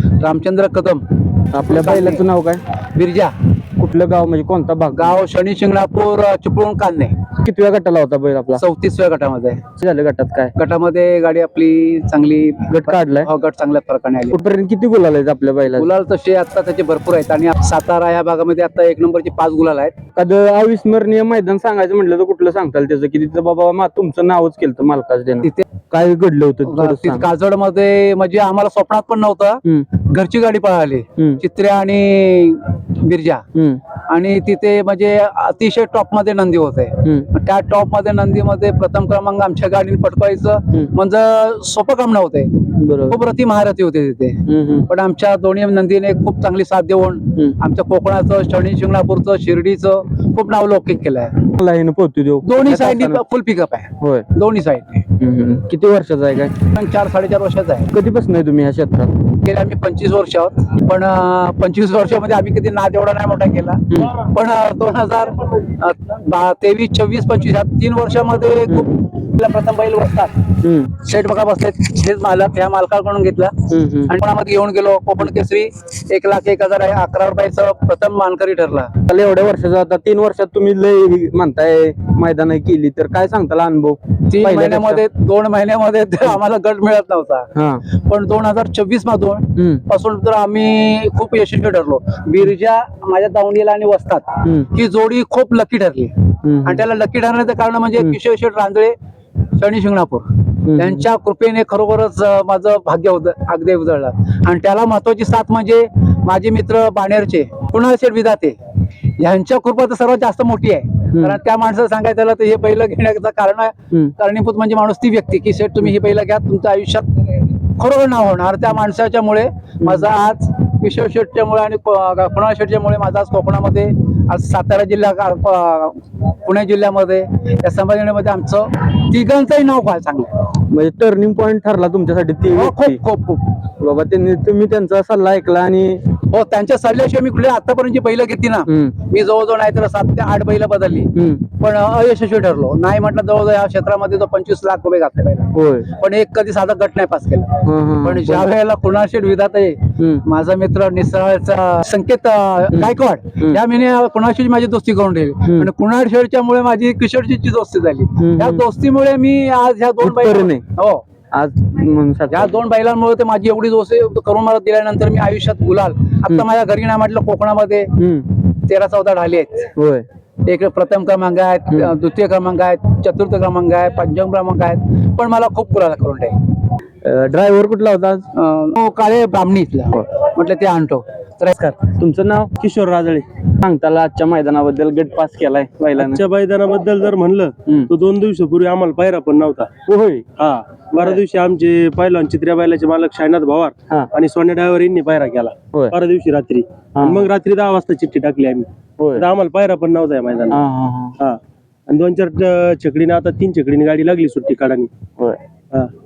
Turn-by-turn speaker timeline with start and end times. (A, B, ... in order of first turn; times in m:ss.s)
0:00.2-0:01.0 A
0:01.5-0:02.6 B
0:01.6-0:02.2 A
0:02.9-0:03.3 A
0:03.8-0:05.2 B
0:04.9-0:07.1 A
0:07.4-0:08.6 B
0:08.6-0:09.6 A
0:09.8-0:10.5 B
0:10.6-0:14.4 A
0:12.7-0:13.3 B
0:14.3-0:15.9 B
0:15.7-0:19.9 A
0:20.2-0:27.3 B
0:26.6-0:33.4 A
0:31.2-0:31.4 B
0:33.5-0:33.8 B
0:34.1-0:51.4 A
0:42.8-0:43.2 B
0:44.5-0:44.9 B
0:51.4-0:53.2 B
0:52.4-0:55.0 A
0:54.0-0:54.3 B
0:55.2-0:56.6 B
0:56.6-0:57.9 A
0:57.9-0:59.1 B
0:59.4-1:10.4 A
1:03.9-1:04.2 B
1:10.6-1:10.9 B
1:11.0-1:18.9 A
1:13.7-1:14.1 B
1:19.0-1:25.0 B
1:24.3-1:38.9 A
1:27.5-1:27.8 B
1:29.6-1:29.8 B
1:36.4-1:36.8 B
1:39.6-1:48.6 A
1:40.7-1:41.0 B
1:49.2-2:10.3 A
1:51.1-1:51.4 B
2:10.7-2:13.0 B
2:12.5-2:13.4 A
2:13.8-2:16.0 B
2:16.3-2:27.5 A
2:18.7-2:19.0 B
2:21.1-2:21.4 B
2:25.5-2:25.9 B
2:27.6-2:28.5 B
2:28.0-2:41.0 A
2:30.0-2:30.2 B
2:32.7-2:33.6 B
2:38.2-2:38.6 B
2:40.0-2:40.6 B
2:41.3-2:42.6 B
2:42.3-2:47.9 A
2:48.0-2:48.3 B
2:48.7-2:49.7 A
2:49.8-2:50.0 B
2:50.5-2:56.3 A
2:57.0-2:58.2 B
2:58.3-3:01.8 A
3:01.8-3:02.5 B
3:02.6-3:03.2 C
3:03.6-3:06.2 B
3:06.0-3:09.7 C
3:09.8-3:10.2 B
3:10.4-3:20.6 C
3:11.0-3:11.2 B
3:17.0-3:17.2 B
3:19.0-3:19.2 B
3:20.5-3:21.1 B
3:21.2-3:24.9 C